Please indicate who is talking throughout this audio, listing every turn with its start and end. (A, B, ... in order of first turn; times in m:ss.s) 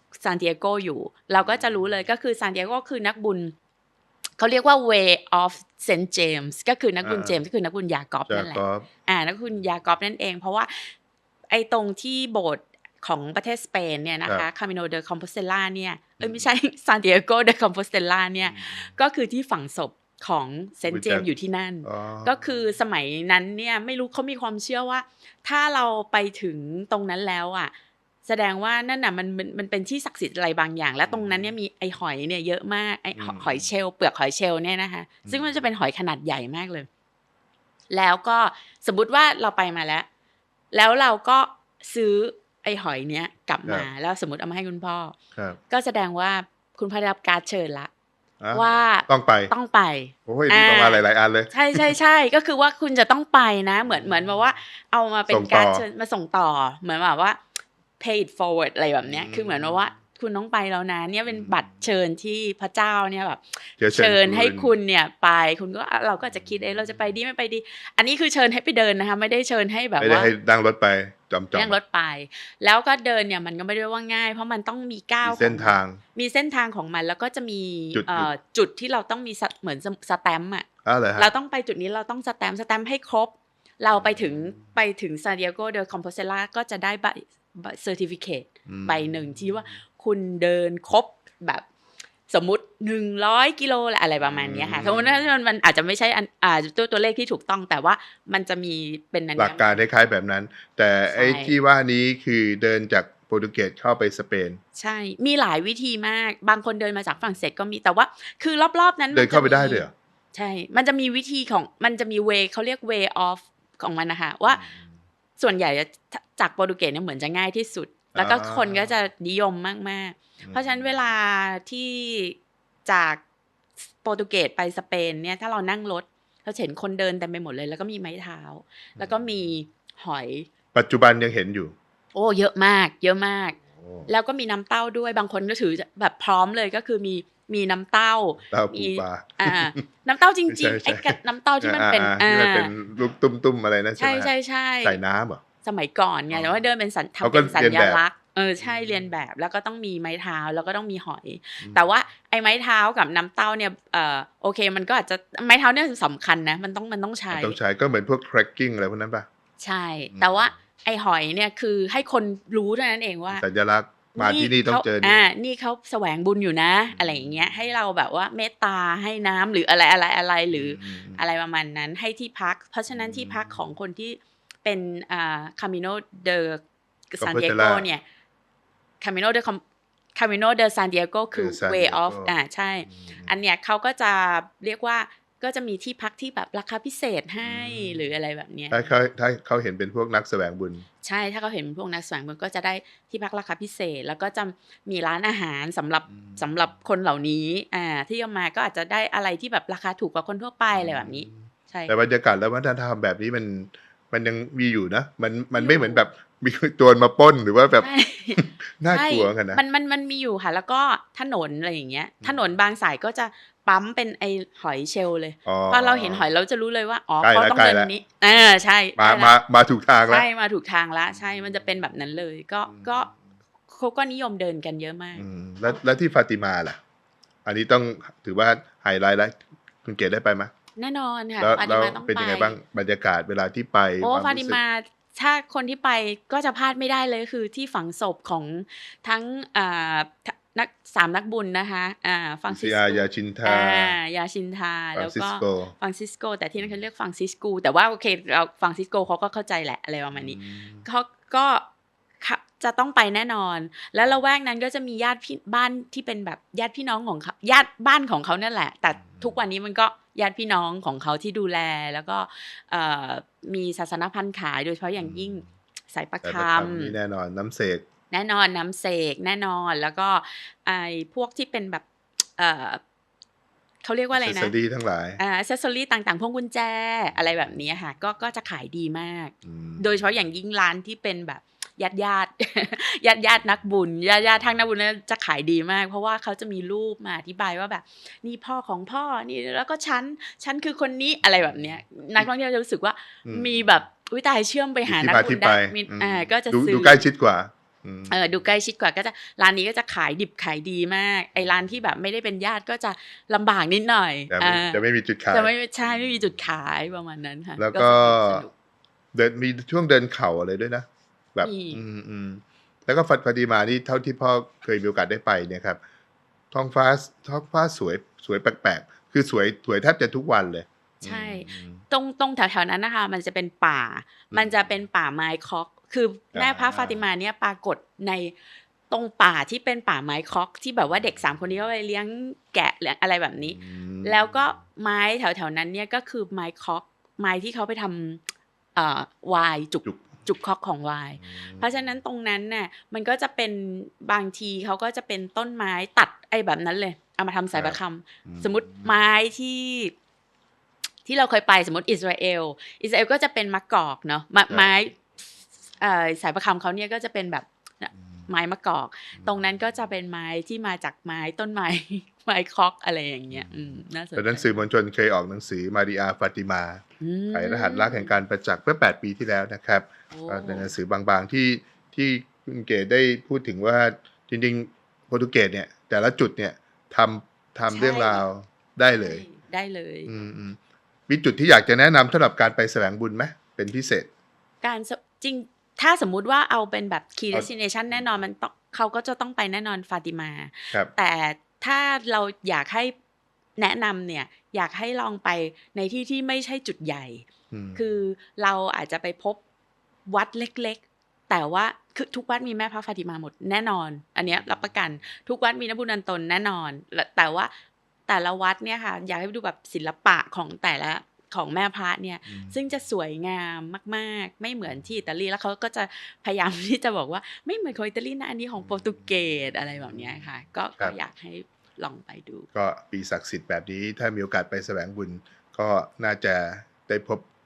0:00.2-0:03.5 A
0:01.4-0:02.0 B
0:04.4-0:10.9 A
0:07.0-0:07.4 B
0:08.3-0:08.9 B
0:11.5-0:27.7 A
0:16.2-0:16.5 B
0:18.4-0:18.9 B
0:20.9-0:21.3 B
0:21.8-0:22.4 B
0:28.2-0:36.9 A
0:31.1-0:31.6 B
0:33.2-0:33.7 B
0:35.2-0:35.7 B
0:37.9-0:40.1 A
0:40.7-0:45.2 A
0:45.7-0:47.9 A
0:48.4-0:49.5 B
0:48.5-0:57.4 A
0:50.3-0:51.9 B
0:53.9-0:54.4 B
0:55.3-0:55.8 B
0:58.0-1:10.3 A
0:59.0-0:59.9 B
1:01.3-1:01.6 B
1:03.8-1:04.8 B
1:06.3-1:06.9 B
1:10.0-1:11.8 B
1:11.5-1:31.7 A
1:15.2-1:16.0 B
1:17.9-1:18.3 B
1:20.8-1:21.3 B
1:23.9-1:24.6 B
1:28.7-1:29.6 B
1:32.3-1:39.8 A
1:34.2-1:35.3 B
1:39.4-1:44.6 B
1:41.1-1:41.6 A
1:44.8-1:54.7 A
1:49.1-1:49.9 B
1:54.4-1:55.0 B
1:55.4-2:03.2 A
1:58.2-1:58.9 B
2:04.0-2:10.5 A
2:09.0-2:09.5 B
2:10.7-2:11.8 B
2:12.1-2:22.7 A
2:13.8-2:14.1 B
2:18.5-2:19.8 B
2:20.5-2:24.3 B
2:24.0-2:25.0 A
2:24.8-2:25.4 B
2:25.6-2:37.6 A
2:26.3-2:26.6 B
2:27.2-2:28.0 B
2:28.6-2:29.1 B
2:31.6-2:31.9 B
2:37.3-2:39.3 B
2:39.6-2:43.4 A
2:40.1-2:40.5 B
2:43.3-2:45.3 B
2:44.2-2:58.0 A
2:46.9-2:47.7 B
2:50.5-2:51.2 B
2:52.9-2:53.6 B
2:57.2-2:57.9 B
2:59.0-2:59.6 A
3:00.2-3:08.8 A
3:01.3-3:02.4 B
3:02.9-3:03.4 B
3:07.4-3:08.1 B
3:08.7-3:10.9 B
3:11.0-3:21.9 A
3:16.1-3:16.5 B
3:20.7-3:29.6 B
3:25.6-3:26.1 A
3:27.8-3:39.4 A
3:32.2-3:32.6 B
3:35.5-3:36.3 B
3:37.2-3:37.9 B
3:39.0-3:40.3 B
3:40.0-3:43.1 A
3:41.1-3:41.7 B
3:42.7-3:43.1 B
3:43.7-3:45.3 A
3:45.2-3:46.8 B
3:47.4-3:50.5 B
3:50.8-3:52.6 A
3:51.4-3:54.6 B
3:54.0-4:11.7 A
4:02.5-4:04.0 B
4:05.0-4:05.7 B
4:10.1-4:10.9 B
4:12.2-4:27.0 A
4:19.1-4:19.4 B
4:25.0-4:25.5 B
4:26.2-4:27.8 B
4:28.1-4:31.8 A
4:32.4-4:32.8 A
4:33.8-4:34.6 A
4:34.1-4:35.2 B
4:35.2-4:57.0 A
4:39.4-4:40.1 B
4:51.2-4:52.3 B
4:53.2-4:53.7 B
4:54.9-4:58.4 B
4:58.1-5:08.5 A
5:04.3-5:06.2 B
5:07.6-5:08.5 B
5:09.1-5:15.8 B
5:11.4-5:11.8 A
5:16.5-5:21.8 B
5:21.0-5:28.4 A
5:24.3-5:24.8 B
5:26.3-5:27.0 B
5:28.9-5:38.2 A
5:33.4-5:34.6 B
5:38.8-5:49.9 A
5:39.8-5:40.1 B
5:41.2-5:41.9 B
5:47.5-5:49.1 B
5:51.0-5:55.0 A
5:55.8-6:04.6 A
5:59.2-5:59.5 B
6:03.3-6:19.2 B
6:07.0-6:08.1 A
6:10.1-6:10.7 A
6:17.7-6:18.3 A
6:18.9-6:20.1 A
6:20.1-6:24.1 B
6:24.6-6:32.9 A
6:27.3-6:28.2 B
6:33.6-6:39.4 A
6:37.5-6:37.8 B
6:40.1-6:47.5 A
6:44.3-6:44.7 B
6:48.1-7:02.5 A
6:52.3-6:52.6 B
6:58.6-7:01.0 B
7:02.5-7:07.3 B